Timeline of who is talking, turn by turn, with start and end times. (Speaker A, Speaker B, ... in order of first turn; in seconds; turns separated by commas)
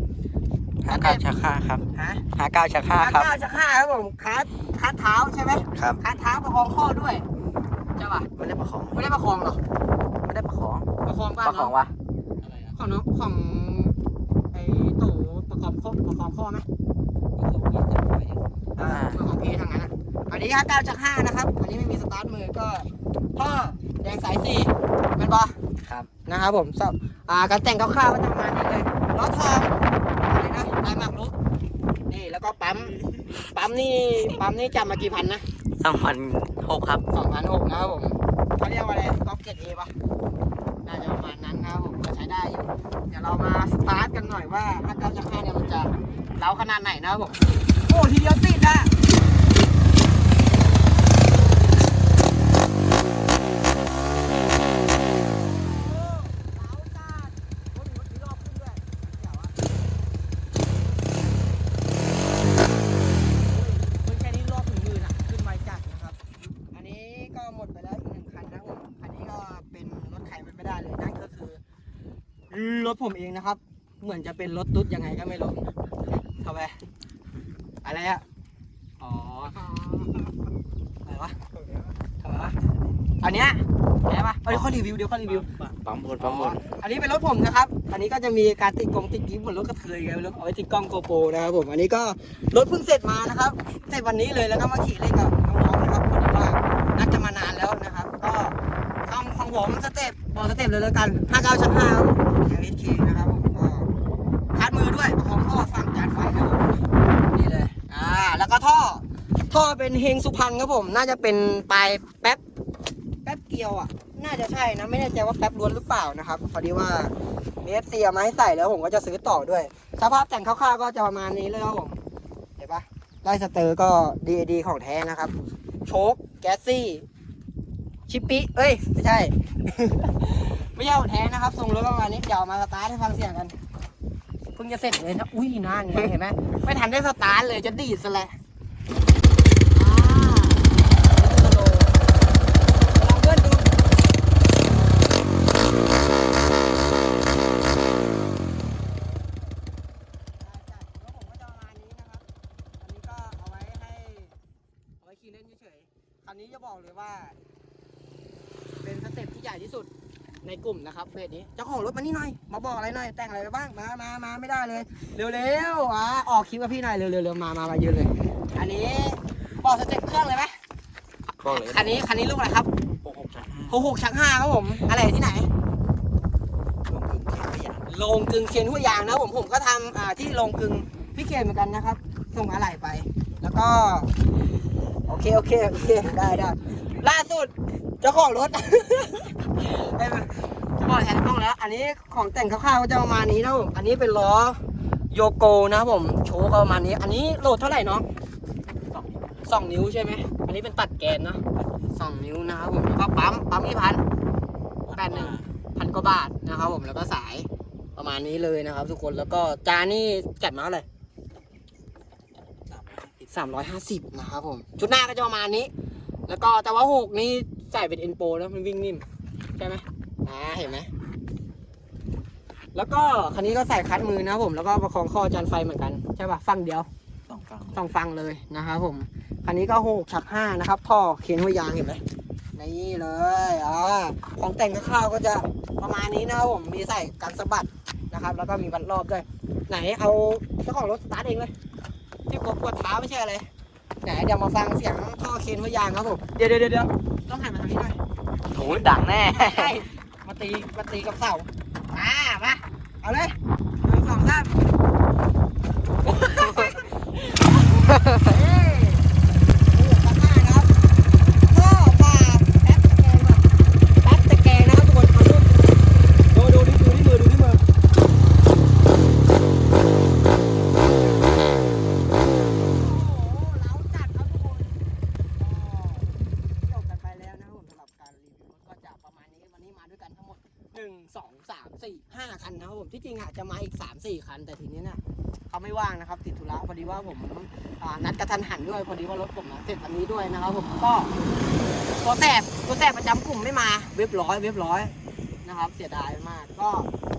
Speaker A: 0.8-1.8, Speaker B: 0.9-1.2, Speaker B: 1.9-2.2, Speaker A: 2.4-3.3, Speaker B: 2.9-7.2, Speaker B: 8.0-8.3, Speaker A: 8.4-9.0, Speaker B: 8.9-9.6, Speaker A: 10.2-10.9, Speaker B: 11.0-11.7, Speaker A: 11.4-11.9, Speaker B: 12.4-13.9, Speaker B: 14.5-16.6, Speaker B: 17.4-25.6, Speaker A: 18.8-19.2, Speaker B: 26.2-31.3, Speaker B: 32.1-35.4, Speaker A: 35.8-37.0, Speaker B: 37.1-39.9, Speaker B: 40.8-48.9, Speaker B: 55.2-59.5, Speaker B: 63.2-71.6, Speaker B: 72.5-76.8, Speaker B: 77.8-78.2, Speaker B: 79.0-80.3, Speaker B: 81.0-81.5, Speaker B: 82.2-82.5, Speaker B: 83.2-85.5, Speaker A: 85.5-86.6, Speaker B: 86.2-103.9, Speaker B: 104.5-112.4, Speaker B: 113.2-122.0, Speaker B: 122.6-125.3, Speaker B: 125.8-127.1, Speaker B: 128.1-133.6, Speaker B: 134.6-138.3, Speaker B: 139.7-141.9, Speaker B: 142.9-143.7, Speaker B: 150.4-152.2, Speaker B: 152.8-154.3, Speaker B: 155.0-157.4, Speaker B: 158.8-159.9, Speaker B: 160.4-170.6, Speaker A: 171.3-171.9, Speaker B: 171.4-172.7, Speaker A: 173.0-173.8, Speaker B: 173.7-175.5, Speaker A: 176.9-177.8, Speaker B: 177.8-184.1, Speaker B: 185.1-198.1, Speaker A: 198.9-199.4, Speaker B: 199.4-204.0, Speaker A: 204.8-205.4, Speaker B: 204.9-210.8, Speaker A: 212.7-213.1, Speaker B: 213.2-215.7, Speaker B: 216.3-219.0, Speaker B: 219.6-220.9, Speaker B: 222.7-226.9, Speaker A: 227.3-227.8, Speaker B: 227.7-232.0, Speaker B: 232.5-241.5, Speaker B: 242.3-243.5, Speaker B: 244.0-248.0, Speaker A: 248.5-249.7, Speaker B: 248.7-254.5, Speaker B: 256.1-259.0, Speaker A: 256.3-256.7, Speaker B: 259.7-260.7, Speaker B: 261.4-263.4, Speaker B: 264.0-265.5, Speaker B: 266.3-267.6, Speaker B: 272.6-274.8, Speaker B: 275.4-291.1, Speaker B: 292.0-296.9